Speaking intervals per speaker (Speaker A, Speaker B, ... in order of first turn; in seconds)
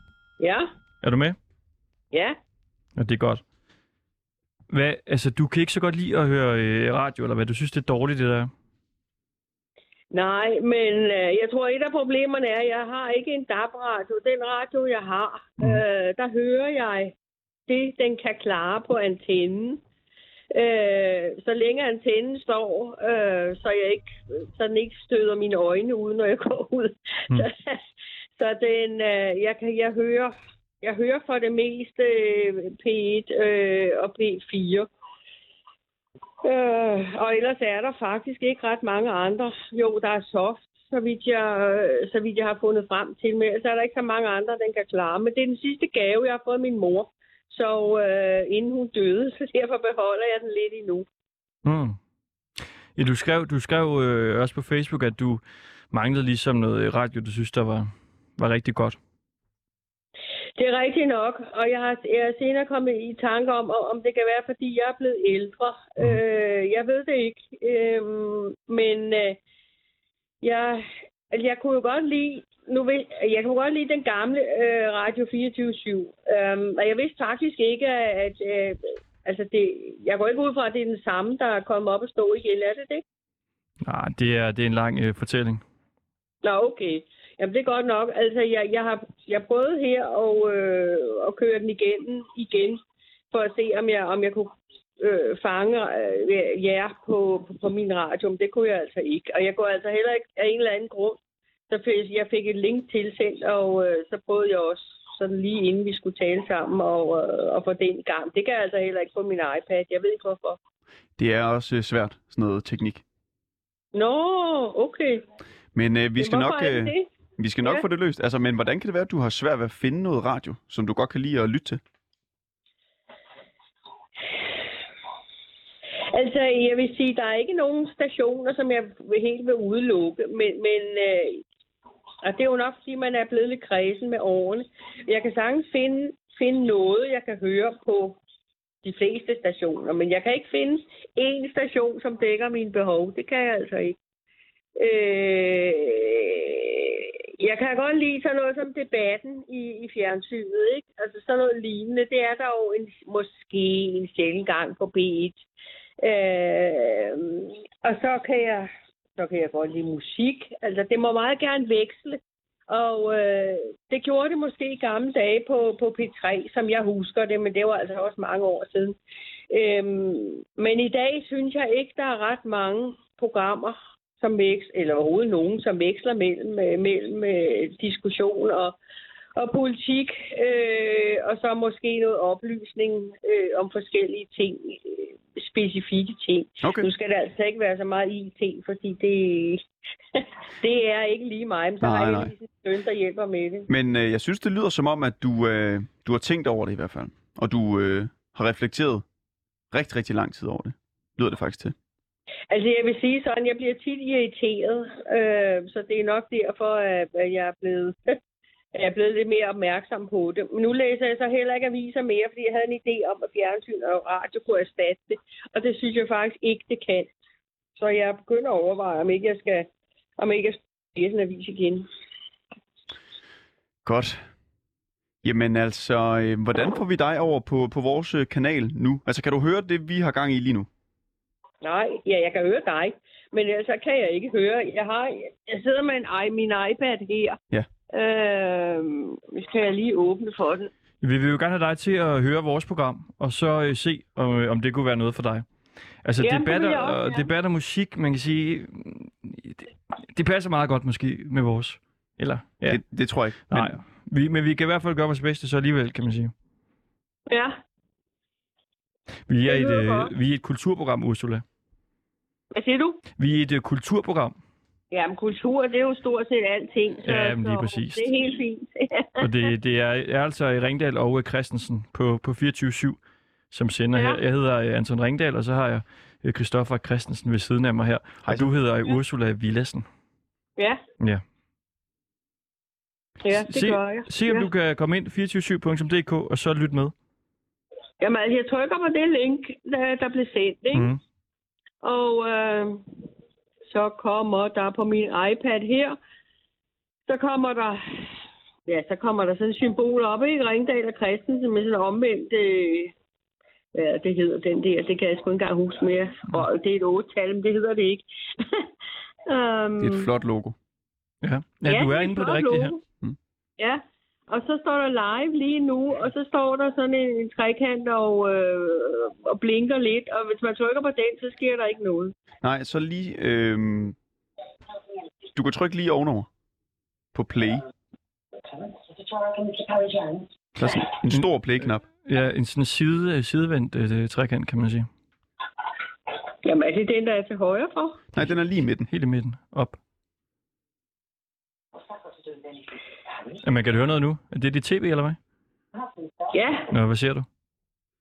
Speaker A: 0.4-0.7, 10.1-17.1, 17.7-19.8, 20.5-34.9, 36.4-51.1, 60.6-69.4, 70.4-83.0, 86.4-92.8, 93.3-110.6, 113.9-115.2, 116.2-117.1, 126.1-131.4, 132.2-138.2, 138.8-144.0, 144.8-155.4, 156.0-169.0, 169.5-178.8, 179.4-189.6, 190.2-193.7, 202.5-208.2, 208.7-217.1, 217.8-221.9, 231.6-237.4, 237.9-240.7, 246.2-247.3, 257.3-257.6, 259.4-260.1, 262.5-263.0, 264.9-269.3, 273.9-274.2, 283.2-284.5, 288.0-290.9, 291.8-292.9, 293.7-296.0, 297.1-298.1, 298.7-302.9, 303.8-308.7, 309.3-310.1, 311.7-312.8, 313.6-322.1, 329.4-330.2, 336.4-338.0, 346.3-346.7
Speaker B: 1.0-1.4, 3.0-3.4, 4.7-8.5, 51.6-52.0, 53.0-59.0, 83.8-85.6, 241.0-256.3, 259.3-261.4, 263.2-264.4, 267.0-268.1, 269.2-279.9, 283.5-286.9, 290.7-291.0, 311.2-312.8, 331.9-334.9, 338.9-339.8, 343.4-345.2, 346.7-347.3
Speaker C: 111.2-113.0, 115.8-121.8, 186.6-186.9, 191.8-192.3, 193.7-199.1, 199.7-201.8, 223.8-224.3, 225.2-230.7, 252.7-253.8, 278.2-278.5, 309.8-310.6, 322.4-324.0, 325.4-326.3, 327.1-327.6, 330.6-331.8, 338.1-338.9